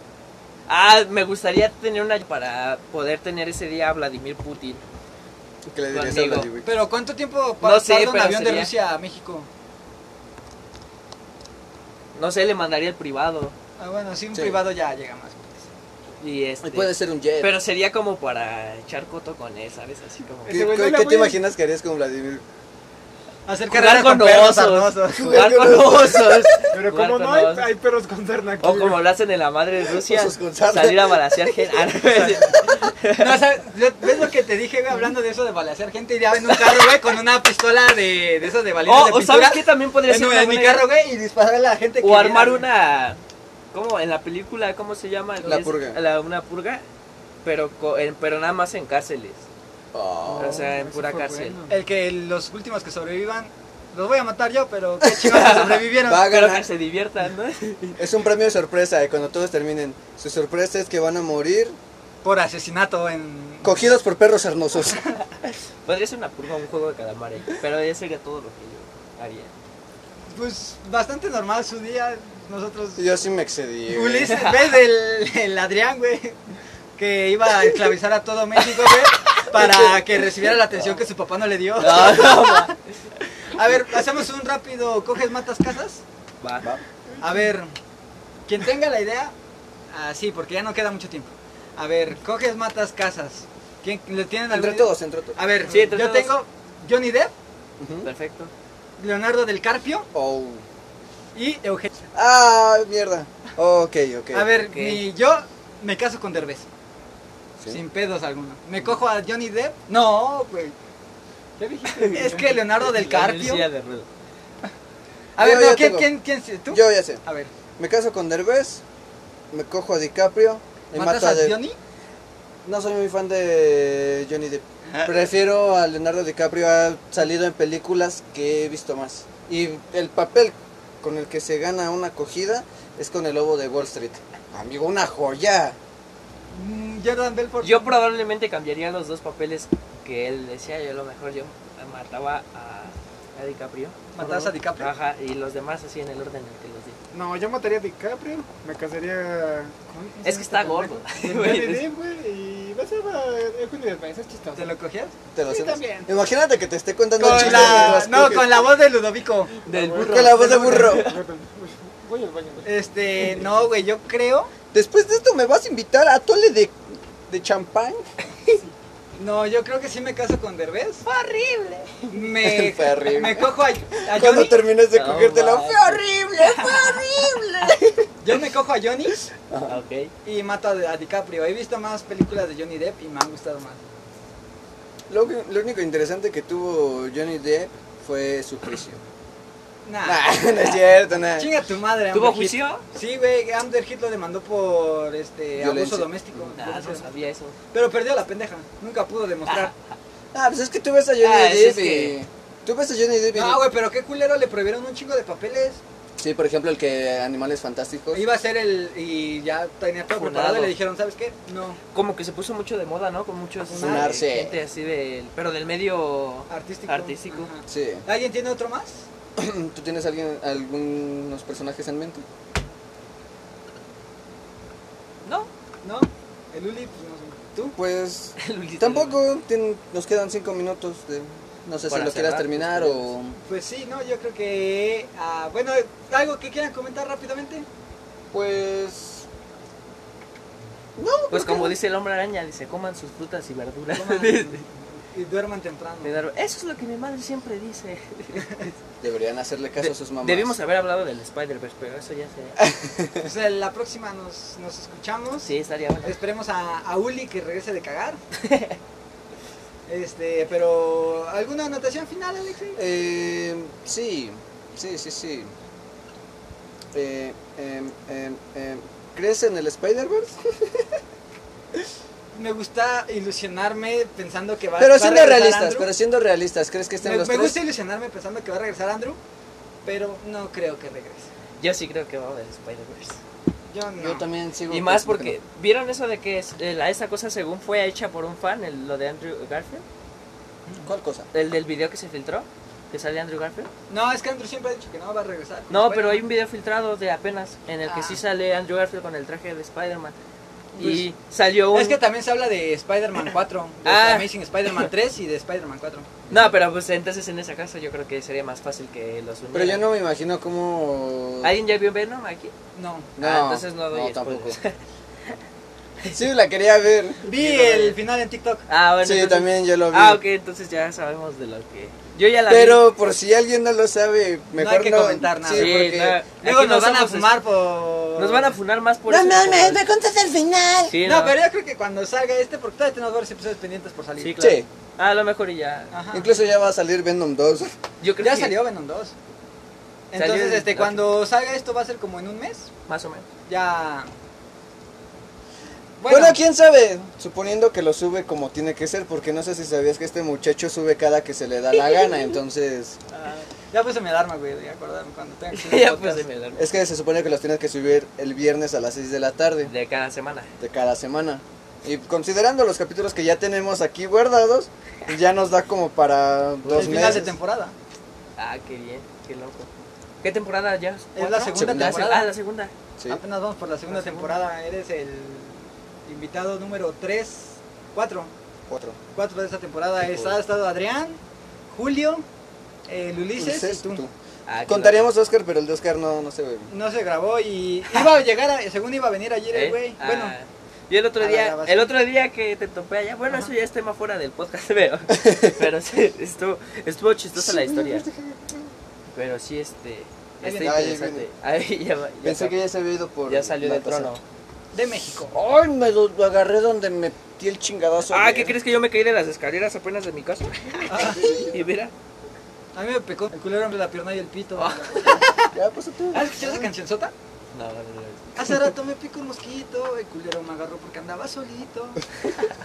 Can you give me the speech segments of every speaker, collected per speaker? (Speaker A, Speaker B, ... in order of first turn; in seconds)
Speaker A: 0.7-4.8, 5.9-6.5, 7.6-8.7, 12.1-13.5, 16.2-20.7, 23.7-27.7, 28.6-33.4, 38.8-40.9, 42.0-43.2, 43.7-46.8, 47.4-49.4, 50.4-51.6, 55.2-58.0, 65.5-69.5, 74.3-74.7, 81.8-82.7, 86.4-86.7, 95.7-96.3, 98.0-98.5, 104.6-105.0, 111.8-114.1, 137.6-147.0, 150.2-151.9, 159.7-161.2, 171.0-172.1, 174.9-177.9, 179.6-180.1, 192.1-192.8, 196.6-197.5, 199.5-199.7, 201.2-202.2, 210.1-210.7, 211.9-217.5, 225.2-225.5, 228.4-229.2, 231.9-233.1, 241.3-244.6, 246.0-248.7, 249.8-252.6, 255.4-256.1, 258.4-258.8, 281.6-283.2, 284.7-289.8, 291.3-293.7, 295.7-300.1, 300.8-302.0, 303.8-304.9, 306.3-309.8, 311.4-312.5, 313.2-314.8, 318.7-322.8, 325.5-327.4, 328.1-329.8, 330.9-331.4, 334.2-335.9, 338.0-338.6, 340.1-341.2, 342.9-343.2, 355.5-356.7, 359.6-360.5, 366.6-367.2, 368.4-369.7, 370.2-372.7, 380.1-380.4, 384.5-385.1, 389.5-398.1, 399.1-402.5, 403.3-404.2, 408.1-411.9, 414.6-415.3, 417.5-418.5
Speaker B: 5.7-6.8, 14.3-14.6, 16.6-17.6, 20.5-22.4, 25.2-26.4, 29.9-31.4, 45.4-46.0, 49.9-50.7, 56.0-56.7, 58.0-61.8, 63.6-65.0, 73.0-74.3, 79.5-79.9, 94.5-95.4, 97.8-98.1, 100.1-100.6, 102.1-104.5, 115.4-116.1, 116.7-117.2, 117.8-118.8, 119.5-121.6, 122.6-135.8, 155.3-158.6, 160.0-161.1, 164.7-168.0, 172.4-173.5, 174.1-177.8, 179.5-179.8, 185.1-189.0, 190.0-191.5, 195.6-196.1, 200.3-203.6, 206.2-208.2, 213.8-214.6, 217.7-218.0, 219.3-222.2, 227.8-233.3, 238.3-239.3, 241.0-241.8, 249.0-250.6, 252.6-253.3, 262.8-265.5, 266.9-271.0, 274.8-277.6, 284.0-285.4, 290.8-291.3, 300.7-301.1, 309.5-311.5, 313.2-314.6, 316.1-317.9, 319.0-320.2, 322.5-326.2, 329.1-331.0, 334.4-334.7, 336.1-337.7, 346.1-353.0, 356.6-359.7, 360.6-367.3, 371.5-372.1, 378.7-379.0, 383.4-384.1, 384.7-386.7, 395.1-395.6, 397.4-398.7, 400.6-401.3, 402.2-404.1, 405.3-408.6, 411.0-411.5, 415.5-416.7
Speaker C: 6.6-9.5, 13.8-15.6, 23.4-25.5, 32.1-42.6, 51.7-56.3, 62.2-63.7, 70.3-73.2, 73.9-76.4, 77.0-82.8, 83.5-86.0, 87.2-87.7, 88.5-89.3, 89.9-97.3, 99.0-100.1, 101.3-101.9, 104.3-106.7, 107.7-110.7, 112.0-113.7, 115.4-117.5, 120.9-121.8, 124.9-125.1, 136.5-137.9, 144.1-144.9, 154.6-155.1, 157.2-159.5, 160.5-160.9, 162.6-164.5, 169.2-171.0, 172.1-174.6, 178.2-179.2, 180.2-183.8, 189.8-190.3, 191.3-197.1, 197.7-199.7, 203.3-205.8, 208.1-211.8, 213.7-214.3, 216.5-219.0, 225.8-227.8, 233.4-237.7, 243.9-246.2, 253.2-255.5, 256.0-258.2, 259.9-262.8, 272.3-275.9, 277.0-279.2, 279.8-281.3, 283.7-284.2, 293.9-296.2, 297.8-298.2, 301.7-306.1, 312.7-313.1, 317.2-318.6, 324.6-325.8, 326.4-328.6, 331.0-334.3, 335.9-336.3, 338.2-339.1, 340.1-342.7, 343.5-344.1, 346.0-346.4, 353.7-356.2, 366.7-367.7, 371.1-372.3, 373.1-378.3, 379.1-382.2, 382.9-384.0, 386.7-390.3, 391.2-391.9, 400.4-400.8, 404.7-405.3, 410.9-411.4, 412.7-415.5, 416.1-417.1, 418.4-422.0
Speaker D: 20.4-21.4, 26.7-29.0, 50.2-51.8, 111.6-112.3, 147.1-154.7, 155.4-156.1, 157.2-158.1, 159.7-162.7, 373.9-374.4